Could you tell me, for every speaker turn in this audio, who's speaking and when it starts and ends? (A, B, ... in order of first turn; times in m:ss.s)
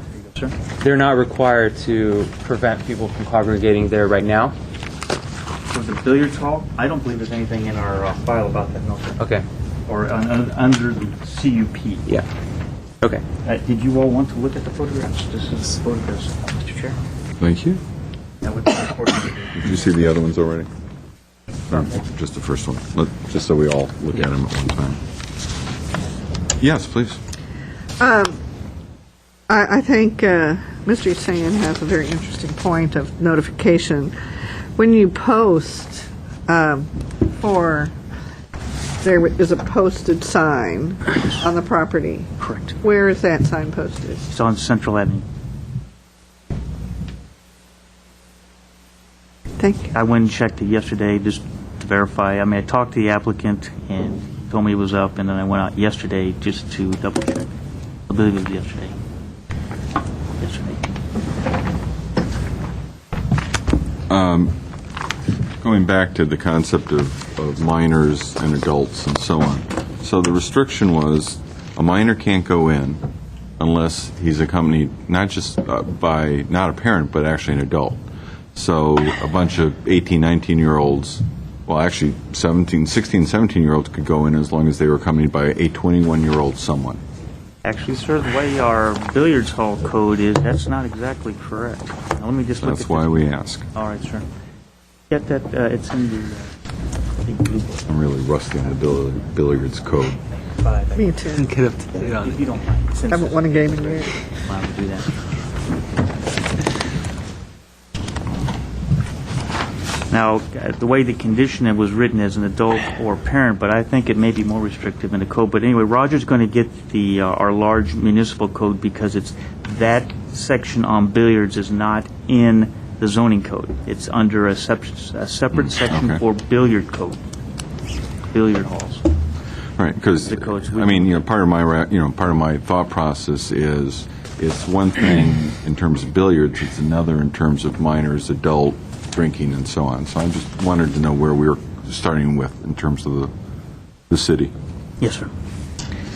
0:00.2-0:00.6 A
0:00.8-0:04.5 B
0:05.7-0:09.2 A
0:09.2-0:09.4 B
0:09.9-0:12.0 A
0:13.4-0:17.0 A
0:17.4-0:17.8 C
0:18.4-0:19.9 A
0:19.5-0:20.7 C
0:21.7-0:25.0 C
0:26.6-0:27.2 C
0:28.0-0:28.4 D
0:29.5-0:34.1 D
0:34.8-0:37.9 D
0:39.0-0:42.3 D
0:42.4-0:42.8 A
0:42.8-0:44.2 D
0:44.3-0:45.2 A
0:49.6-0:49.9 D
0:49.9-0:57.5 A
0:58.1-0:59.0 A
1:00.4-1:00.9 A
1:04.1-1:04.5 C
1:05.6-1:13.0 C
1:13.6-1:18.0 C
1:18.5-1:27.0 C
1:27.6-1:34.2 A
1:32.6-1:33.7 C
1:35.1-1:36.5 A
1:37.2-1:37.9 A
1:37.9-1:40.2 C
1:40.3-1:41.3 A
1:40.9-1:41.5 D
1:41.3-1:42.4 B
1:41.9-1:45.1 A
1:43.1-1:44.2 D
1:50.1-2:07.2 A
2:05.6-2:06.2 C
2:08.3-2:09.1 A
2:09.8-2:23.3 C
2:10.2-2:11.2 A
2:24.1-2:24.5 C
2:25.0-2:25.3 A